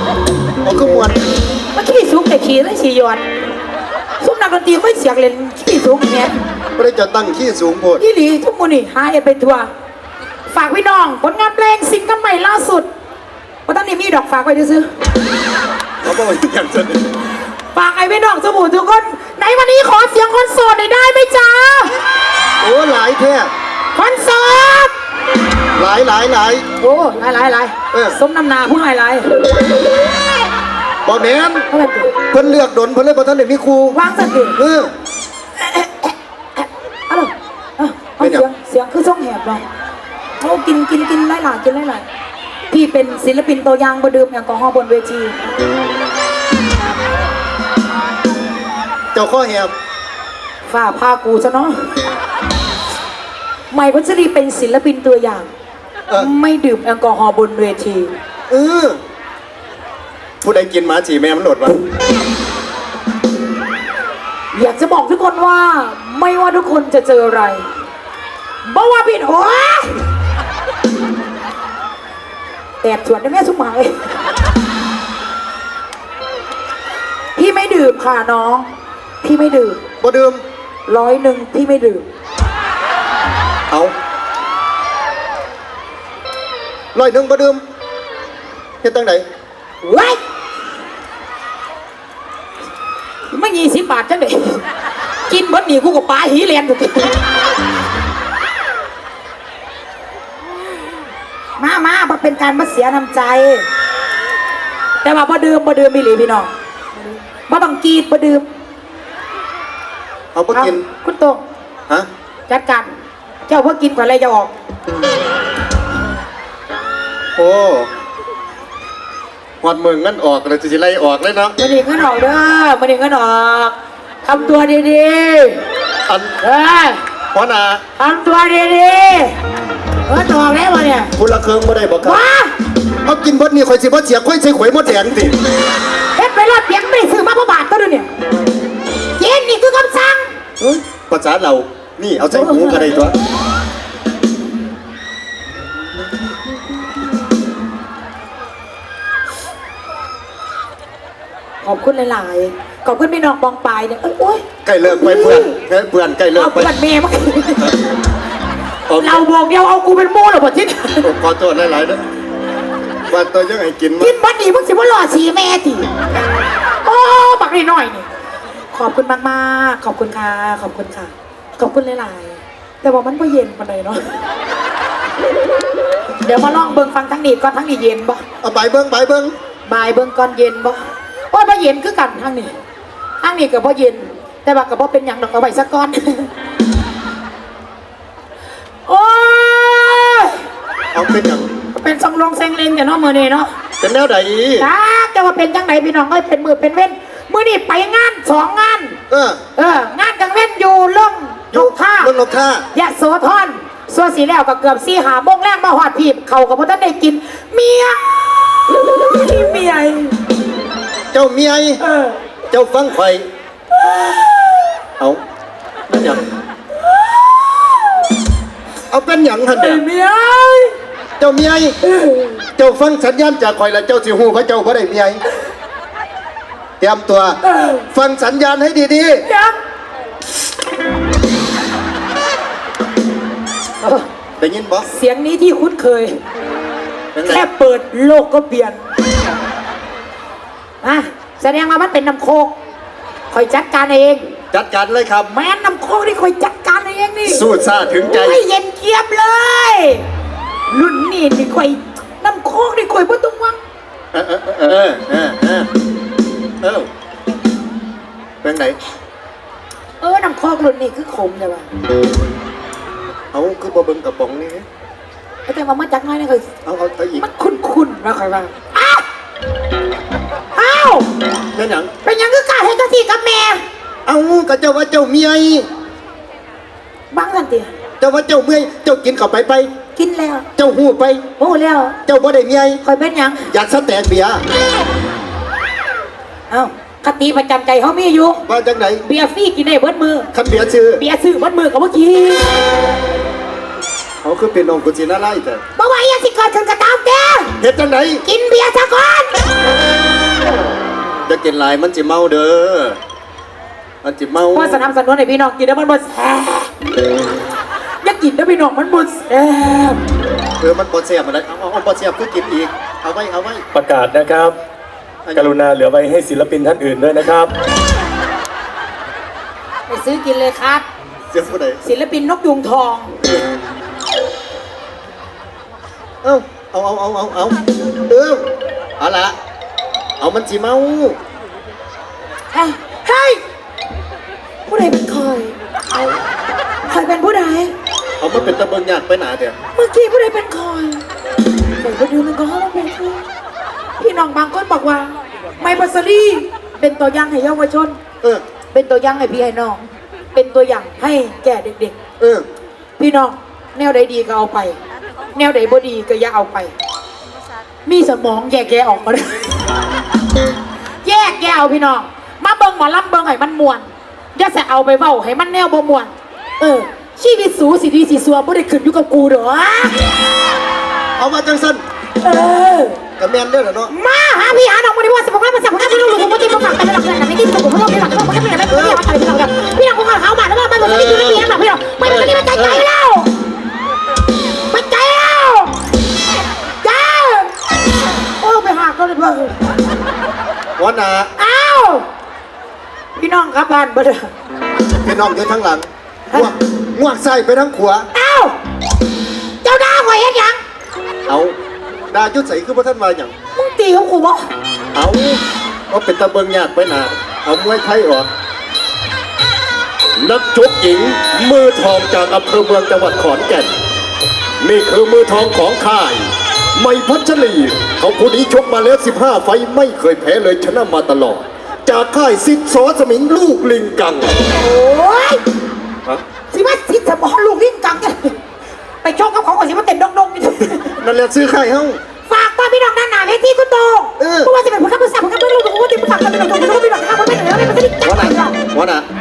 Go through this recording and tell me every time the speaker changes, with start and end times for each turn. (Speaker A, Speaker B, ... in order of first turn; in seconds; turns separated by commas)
Speaker A: 0.6-1.2, Speaker B: 1.8-3.2, Speaker B: 4.2-6.4, Speaker A: 6.8-8.0, Speaker B: 8.0-9.7, Speaker B: 10.5-12.9, Speaker B: 13.7-14.9, Speaker A: 16.0-17.1, Speaker B: 17.7-22.0, Speaker A: 22.6-23.5, Speaker B: 23.9-24.9, Speaker A: 25.8-26.6, Speaker B: 26.8-29.4, Speaker A: 27.9-28.2, Speaker A: 31.1-31.7, Speaker B: 31.7-32.1, Speaker A: 32.3-34.0, Speaker B: 33.9-34.6, Speaker A: 34.6-34.9, Speaker B: 35.6-39.6, Speaker A: 38.2-38.5, Speaker B: 40.4-42.0, Speaker B: 42.7-45.4, Speaker A: 49.1-49.7, Speaker B: 50.7-51.9, Speaker B: 53.7-55.5, Speaker B: 56.1-58.1, Speaker A: 58.5-59.0, Speaker A: 60.4-61.8, Speaker B: 64.5-67.6, Speaker B: 68.7-70.0, Speaker B: 72.8-74.1, Speaker B: 77.4-78.7, Speaker B: 79.2-79.8, Speaker A: 80.0-80.4, Speaker B: 80.9-82.0, Speaker A: 86.9-87.6, Speaker A: 88.8-89.2, Speaker B: 89.8-90.2, Speaker B: 93.3-94.6, Speaker B: 95.3-97.2, Speaker B: 101.6-103.7, Speaker B: 105.0-106.5, Speaker B: 107.5-108.5, Speaker A: 110.3-110.8, Speaker B: 110.5-111.4, Speaker B: 112.5-112.9, Speaker B: 113.5-114.5, Speaker A: 117.4-117.9, Speaker A: 119.6-121.6, Speaker B: 121.6-123.7, Speaker B: 124.2-125.6, Speaker A: 126.1-126.4, Speaker B: 126.4-127.0, Speaker A: 127.3-127.8, Speaker B: 128.0-129.4, Speaker B: 130.1-131.1, Speaker A: 131.2-132.2, Speaker B: 132.0-132.5, Speaker A: 133.1-135.4, Speaker B: 136.2-138.1, Speaker B: 139.2-140.3, Speaker A: 140.6-143.1, Speaker B: 142.3-142.8, Speaker B: 151.6-155.6, Speaker A: 154.7-156.7, Speaker B: 156.4-157.7, Speaker A: 158.9-159.2, Speaker B: 158.9-161.1, Speaker A: 161.0-162.0, Speaker A: 163.1-164.2, Speaker B: 164.0-165.9, Speaker B: 166.8-168.1, Speaker B: 168.7-174.1, Speaker B: 176.2-178.2, Speaker A: 178.4-179.3, Speaker B: 179.7-182.5, Speaker B: 183.2-186.3, Speaker B: 188.9-190.4, Speaker A: 190.9-191.5, Speaker B: 191.7-193.5, Speaker A: 193.8-194.7, Speaker B: 194.6-199.0, Speaker A: 199.1-199.4, Speaker B: 199.6-202.1, Speaker A: 201.5-202.7, Speaker B: 202.7-210.2, Speaker A: 211.1-211.8, Speaker B: 211.8-212.2, Speaker A: 212.5-213.2, Speaker B: 213.7-214.6, Speaker A: 215.9-216.2, Speaker B: 217.0-217.6, Speaker A: 218.9-219.8, Speaker B: 219.5-220.7, Speaker A: 221.2-221.8, Speaker B: 221.8-222.4, Speaker A: 222.6-225.2, Speaker A: 226.8-227.4, Speaker B: 227.4-227.9, Speaker A: 227.9-229.2, Speaker B: 229.2-229.5, Speaker A: 234.4-234.9, Speaker B: 234.9-236.2, Speaker A: 237.2-237.5, Speaker B: 237.3-238.8, Speaker B: 240.8-242.5, Speaker B: 243.3-244.2, Speaker A: 244.5-245.3, Speaker B: 245.3-247.5, Speaker A: 247.2-248.4, Speaker B: 248.0-250.1, Speaker B: 250.7-253.6, Speaker A: 254.1-255.7, Speaker A: 256.6-256.9, Speaker A: 258.4-258.8, Speaker B: 260.0-261.7, Speaker A: 263.3-264.6, Speaker B: 265.5-266.4, Speaker A: 266.7-267.2, Speaker B: 267.2-269.0, Speaker B: 270.6-271.1, Speaker A: 271.5-271.9, Speaker B: 272.0-273.6, Speaker A: 274.1-275.7, Speaker B: 277.1-277.7, Speaker A: 278.0-279.7, Speaker B: 279.9-280.5, Speaker A: 280.6-281.2, Speaker B: 281.4-282.0, Speaker A: 282.1-282.8, Speaker B: 282.8-283.5, Speaker A: 283.5-284.4, Speaker B: 286.5-288.4, Speaker A: 288.5-289.0, Speaker B: 289.0-290.3, Speaker A: 290.3-291.0, Speaker B: 291.0-292.5, Speaker A: 294.2-295.6, Speaker B: 295.8-297.5, Speaker A: 297.6-298.2, Speaker B: 298.2-299.4, Speaker A: 301.2-303.0, Speaker A: 304.0-304.8, Speaker B: 304.5-306.7, Speaker B: 308.0-310.0, Speaker A: 310.6-313.6, Speaker C: 313.7-314.6, Speaker A: 315.2-315.5, Speaker C: 315.4-317.5, Speaker B: 319.9-320.9, Speaker A: 321.3-321.8, Speaker B: 321.8-323.2, Speaker A: 326.2-328.4, Speaker A: 329.0-329.4, Speaker A: 330.2-331.2, Speaker B: 332.5-333.4, Speaker B: 334.7-335.6, Speaker B: 336.9-337.7, Speaker A: 338.2-339.6, Speaker B: 339.8-341.0, Speaker B: 341.8-343.2, Speaker B: 344.0-348.0, Speaker B: 348.7-352.0, Speaker A: 352.2-352.5, Speaker B: 353.0-354.8, Speaker B: 355.3-356.7, Speaker B: 357.9-359.4, Speaker B: 361.0-370.0, Speaker A: 371.2-371.8, Speaker B: 372.2-373.0, Speaker A: 373.2-373.9, Speaker B: 373.9-383.3, Speaker A: 378.7-379.0, Speaker A: 380.8-382.9, Speaker B: 384.7-385.8, Speaker B: 386.8-387.5, Speaker B: 388.4-389.6, Speaker A: 390.8-391.3, Speaker B: 391.4-392.1, Speaker B: 393.2-394.3, Speaker A: 395.0-398.1, Speaker B: 398.1-398.6, Speaker B: 399.6-400.6, Speaker A: 401.3-401.6, Speaker A: 402.1-403.3, Speaker B: 403.6-404.5, Speaker A: 404.9-408.3, Speaker A: 410.2-413.7, Speaker A: 414.6-424.3, Speaker B: 424.6-425.4, Speaker B: 426.5-428.4, Speaker B: 429.0-431.0, Speaker A: 431.0-432.0, Speaker B: 432.3-438.6, Speaker A: 434.2-434.5, Speaker A: 438.0-439.1